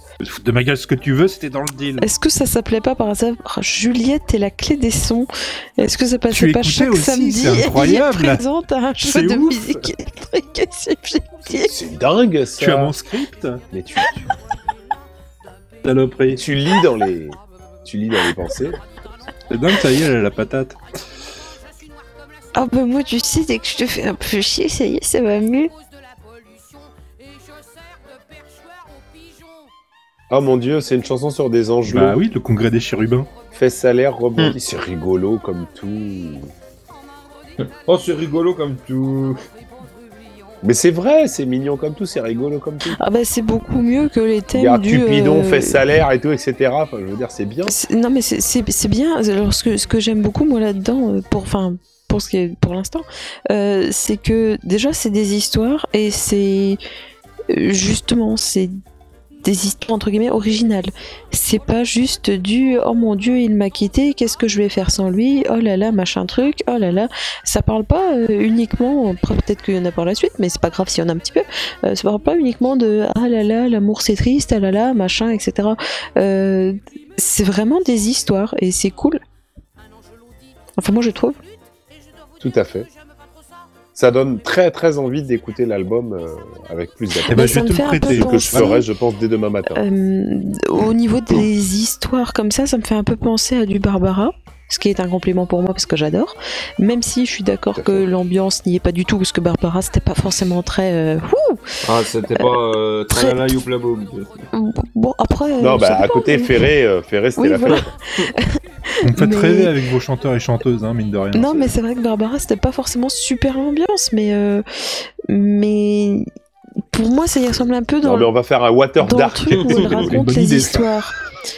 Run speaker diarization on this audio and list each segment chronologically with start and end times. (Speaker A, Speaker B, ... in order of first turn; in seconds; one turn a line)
Speaker A: 0.2-2.1
Speaker B: 2.0-11.7
Speaker A: 6.3-8.4
Speaker A: 9.0-9.9
Speaker C: 11.5-12.9
Speaker A: 12.6-13.6
Speaker C: 13.7-14.2
Speaker A: 15.8-16.4
Speaker C: 16.3-18.8
Speaker A: 19.5-20.8
Speaker B: 22.6-25.7
Speaker C: 30.3-32.2
Speaker A: 31.8-33.3
Speaker C: 33.5-36.5
Speaker D: 37.6-39.4
Speaker C: 40.6-43.0
Speaker B: 42.9-45.8
Speaker C: 44.5-47.8
Speaker B: 47.7-56.8
Speaker B: 57.5-58.8
Speaker B: 59.4-79.2
Speaker B: 80.8-81.4
Speaker C: 82.4-82.9
Speaker C: 84.0-89.8
Speaker A: 87.3-88.7
Speaker B: 87.3-88.9
Speaker B: 89.7-101.7
Speaker C: 97.8-98.1
Speaker D: 101.8-104.3
Speaker B: 103.1-103.6
Speaker B: 104.5-106.7
Speaker C: 105.6-107.9
Speaker B: 107.4-109.7
Speaker A: 109.0-111.7
Speaker B: 111.3-116.3
Speaker B: 116.9-118.3
Speaker C: 118.0-120.8
Speaker B: 119.0-121.2
Speaker A: 119.9-120.8